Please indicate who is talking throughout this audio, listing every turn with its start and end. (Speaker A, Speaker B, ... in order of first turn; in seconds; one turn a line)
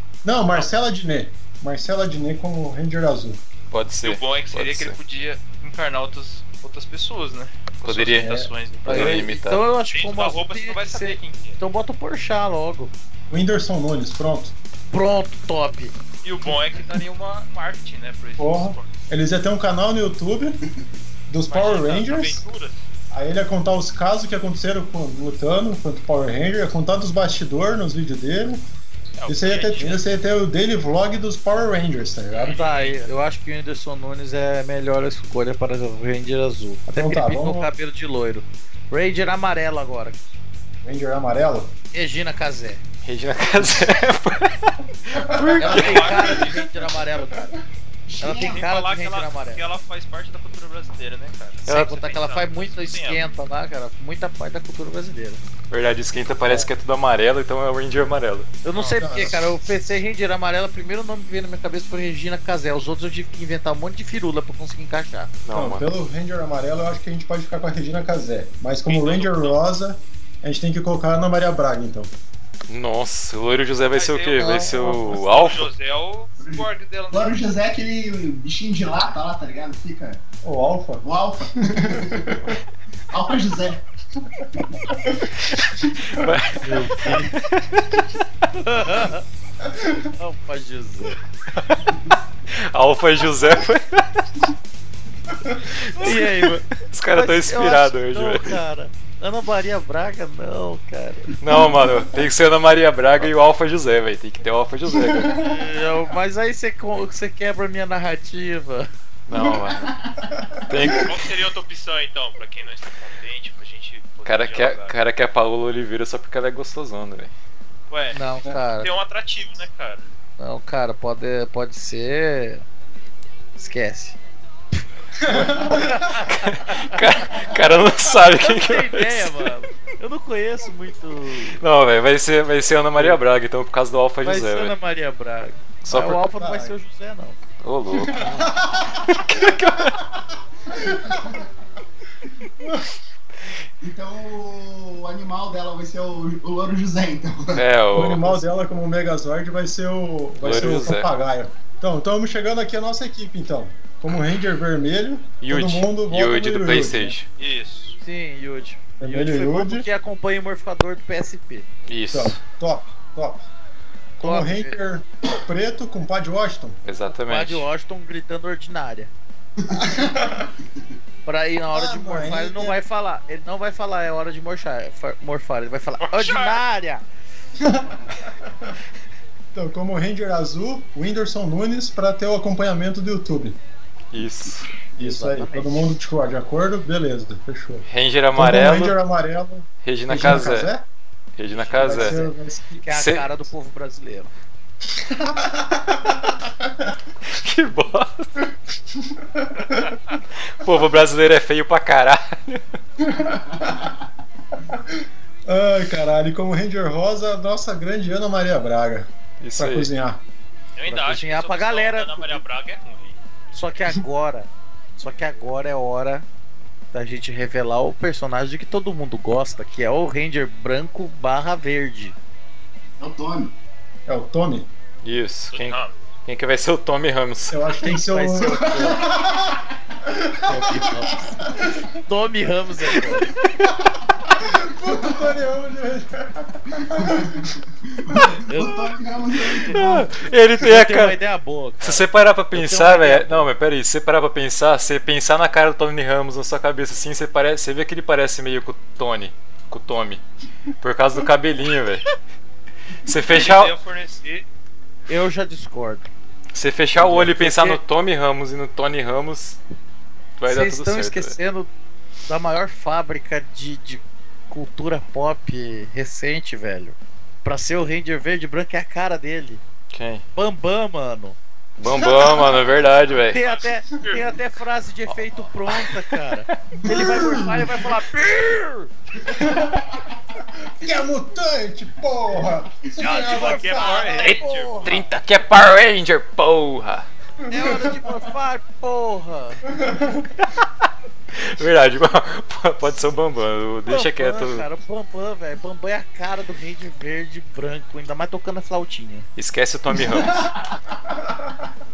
Speaker A: 0.2-3.4
Speaker B: 3.7-5.0
Speaker C: 4.0-9.3
Speaker B: 7.8-9.6
Speaker A: 8.2-8.5
Speaker D: 8.9-12.9
Speaker C: 9.9-11.6
Speaker A: 13.3-14.6
Speaker D: 14.9-15.9
Speaker C: 16.2-18.9
Speaker A: 18.4-20.6
Speaker A: 21.3-22.4
Speaker C: 21.5-22.9
Speaker A: 23.1-28.6
Speaker C: 29.2-30.0
Speaker A: 29.3-32.6
Speaker C: 32.4-33.1
Speaker D: 32.5-40.2
Speaker A: 36.9-37.7
Speaker A: 40.8-41.7
Speaker D: 41.9-42.8
Speaker B: 43.0-46.3
Speaker A: 45.2-45.5
Speaker D: 45.6-47.5
Speaker C: 45.6-46.7
Speaker E: 48.1-48.6
Speaker D: 48.2-49.6
Speaker C: 48.4-53.3
Speaker B: 51.7-51.9
Speaker D: 51.7-55.4
Speaker B: 55.7-58.5
Speaker D: 58.6-65.3
Speaker C: 58.7-59.0
Speaker A: 59.0-59.9
Speaker B: 65.5-65.9
Speaker A: 65.5-72.1
Speaker C: 68.9-69.6
Speaker B: 72.7-75.7
Speaker C: 73.9-77.3
Speaker E: 76.4-80.2
Speaker A: 80.4-81.0
Speaker E: 81.0-82.4
Speaker A: 81.7-82.5
Speaker E: 83.1-83.8
Speaker B: 86.1-88.2
Speaker D: 86.6-87.3
Speaker D: 88.5-89.2
Speaker A: 89.7-90.1
Speaker D: 90.2-91.2
Speaker B: 92.5-94.3
Speaker B: 95.6-98.6
Speaker D: 96.0-101.4
Speaker B: 101.4-105.5
Speaker D: 105.3-108.9
Speaker B: 109.3-109.9
Speaker E: 109.6-110.2
Speaker B: 110.7-111.2
Speaker C: 111.0-115.0
Speaker B: 114.2-117.3
Speaker C: 117.9-118.2
Speaker D: 118.1-118.9
Speaker C: 118.8-120.1
Speaker D: 120.4-122.6
Speaker D: 123.6-124.2
Speaker A: 125.2-126.2
Speaker D: 125.4-127.1
Speaker B: 126.2-129.5
Speaker D: 128.3-131.6
Speaker B: 131.6-134.7
Speaker D: 134.2-137.4
Speaker B: 135.8-136.2
Speaker A: 136.4-136.8
Speaker B: 137.6-140.0
Speaker A: 138.1-139.5
Speaker A: 140.8-141.4
Speaker A: 142.6-142.9
Speaker E: 143.8-147.6
Speaker B: 147.5-148.4
Speaker A: 147.9-157.2
Speaker B: 150.4-151.1
Speaker B: 155.4-157.3
Speaker C: 157.4-158.0
Speaker D: 158.0-161.7
Speaker A: 159.0-159.9
Speaker B: 161.9-162.4
Speaker A: 162.1-163.4
Speaker A: 164.2-166.8
Speaker D: 164.2-164.8
Speaker B: 166.8-167.7
Speaker D: 167.2-169.1
Speaker A: 169.8-170.5
Speaker E: 169.9-170.2
Speaker D: 171.2-177.1
Speaker A: 171.7-172.8
Speaker C: 176.0-176.6
Speaker A: 177.6-177.9
Speaker A: 179.5-183.6
Speaker B: 184.1-184.7
Speaker A: 185.0-190.8
Speaker D: 185.0-185.9
Speaker B: 187.9-189.0
Speaker B: 189.8-190.7
Speaker B: 191.4-192.2
Speaker D: 191.6-194.3
Speaker A: 191.8-192.8
Speaker B: 192.9-193.3
Speaker A: 195.0-196.1
Speaker B: 197.2-198.5
Speaker A: 199.0-199.9
Speaker B: 200.5-202.6
Speaker A: 203.0-203.8
Speaker A: 205.5-210.2
Speaker B: 209.4-209.9
Speaker C: 210.8-213.2
Speaker D: 210.9-212.4
Speaker D: 213.5-216.3
Speaker D: 216.9-222.2
Speaker E: 223.0-223.5
Speaker A: 224.1-224.7
Speaker B: 225.0-227.6
Speaker C: 225.5-225.9
Speaker A: 227.5-229.1
Speaker D: 227.8-229.1
Speaker E: 228.7-229.2
Speaker A: 230.2-230.5
Speaker D: 230.5-231.4
Speaker D: 232.1-233.3
Speaker A: 234.3-237.5
Speaker E: 237.0-240.0
Speaker D: 238.5-238.9
Speaker B: 239.7-241.2
Speaker D: 240.6-243.5
Speaker B: 241.8-250.2
Speaker B: 250.8-252.1
Speaker B: 253.0-253.8
Speaker C: 253.2-254.5
Speaker D: 255.1-256.1
Speaker B: 256.5-259.6
Speaker D: 257.0-257.8
Speaker B: 260.4-261.4
Speaker D: 260.5-261.7
Speaker D: 262.3-269.6
Speaker B: 269.9-270.2
Speaker D: 270.4-271.4
Speaker B: 271.8-273.4
Speaker D: 273.3-278.9
Speaker C: 273.4-274.3
Speaker B: 275.7-276.5
Speaker E: 276.9-277.4
Speaker A: 276.9-277.6
Speaker A: 279.3-279.7
Speaker A: 280.6-284.2
Speaker D: 283.0-285.0
Speaker C: 283.1-285.0
Speaker B: 284.2-287.1
Speaker A: 287.4-288.0
Speaker D: 287.5-289.6
Speaker A: 289.8-290.2
Speaker B: 291.3-294.7
Speaker D: 293.9-299.3
Speaker B: 299.4-300.4